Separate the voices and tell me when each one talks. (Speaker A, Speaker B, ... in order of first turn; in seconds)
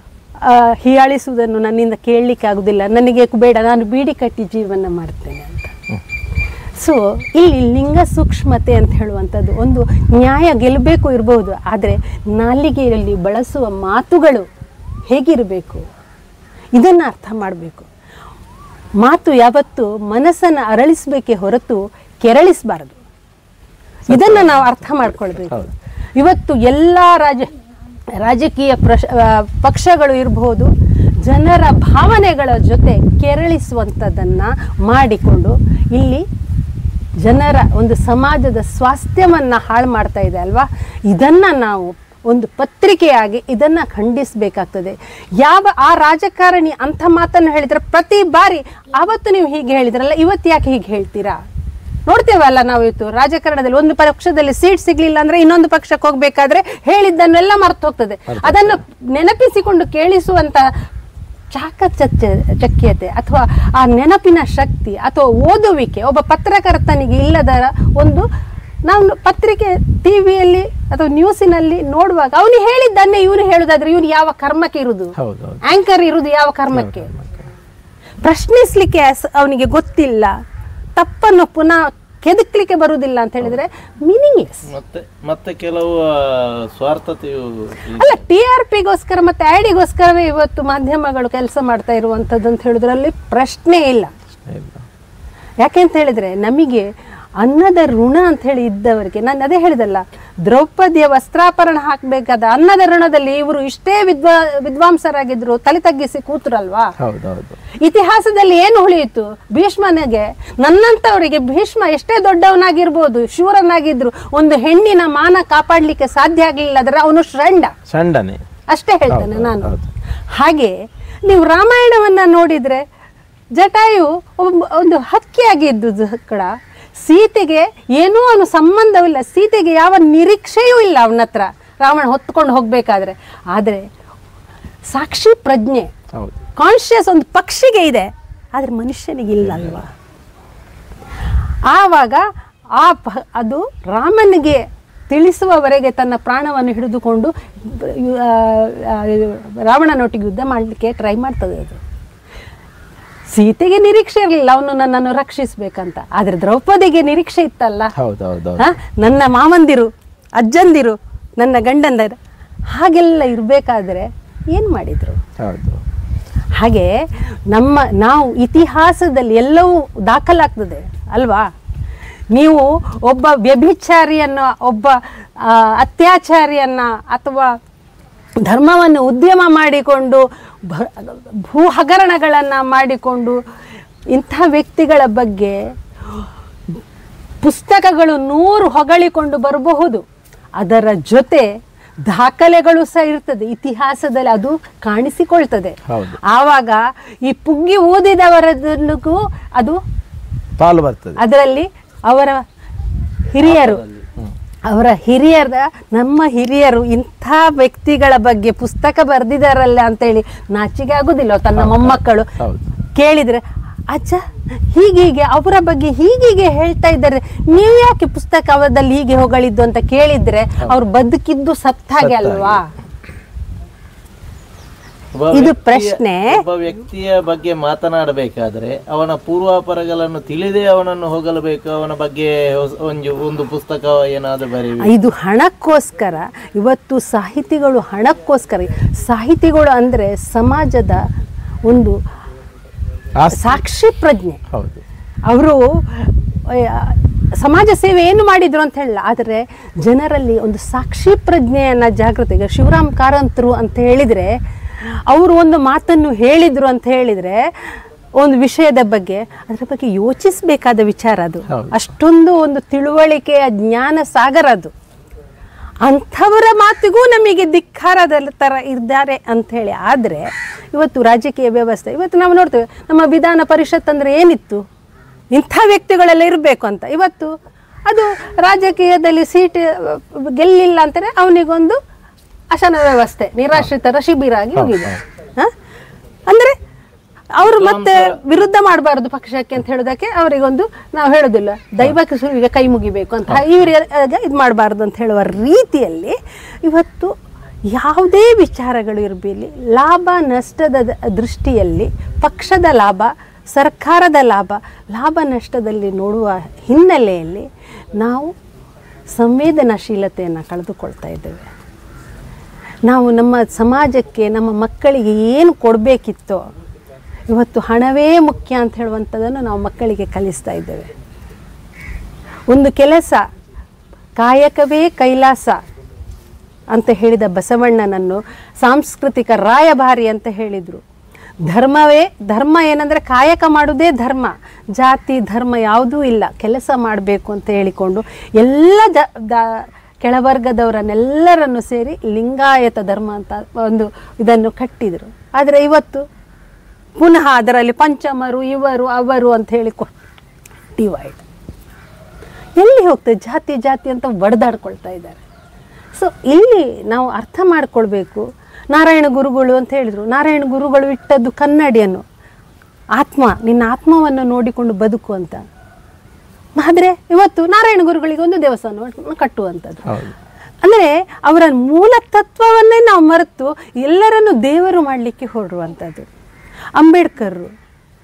Speaker A: 0.4-5.7, 6.8-14.5, 15.1-15.9, 16.8-17.9, 19.0-23.0, 24.1-25.6, 26.2-27.5, 28.2-30.7, 31.2-36.2, 37.2-51.4, 52.1-60.7, 61.5-68.3, 68.9-77.1, 78.2-80.4, 81.0-84.7, 88.0-94.1, 95.6-106.9, 107.8-117.7, 118.7-119.7, 120.4-122.8, 123.6-133.9, 134.9-135.9, 136.6-139.9, 141.7-142.2, 142.8-151.8, 153.3-157.9, 158.6-162.2, 162.7-165.2, 166.6-166.9, 167.5-171.5, 172.3-177.6, 178.4-183.4, 184.1-185.6, 187.4-190.0, 190.6-191.5, 192.1-199.8, 201.2-202.4, 203.3-203.8, 204.7-212.3, 212.9-222.7, 225.3-226.4, 234.8-241.0, 241.7-242.0, 243.3-244.4, 245.3-254.4, 255.1-257.5, 258.2-264.7, 265.8-274.6, 275.3-277.4, 277.9-281.8, 282.5-285.5, 286.3-286.6, 287.4-297.1, 297.7-308.3, 309.1-311.5, 312.9-316.4, 317.3-320.9, 322.5-323.2, 324.2-325.6, 326.7-330.8, 331.5-346.1, 347.0-349.9, 350.8-351.2, 352.6-355.2, 356.0-362.0, 363.0-365.4, 366.6-369.9, 370.6-376.1, 376.8-377.5
Speaker B: 24.1-25.7, 58.3-58.8, 75.2-75.6, 76.7-77.4, 94.4-94.8, 107.0-107.6, 117.9-118.4, 119.1-119.9, 139.4-139.8, 158.0-158.7, 165.4-165.8, 195.9-196.2, 200.6-201.2, 211.6-212.6, 222.0-222.6, 243.2-243.6, 244.5-244.8, 261.5-261.8, 284.6-285.0, 369.9-370.1
Speaker C: 84.7-88.2, 203.4-204.1, 225.2-234.9, 287.4-288.2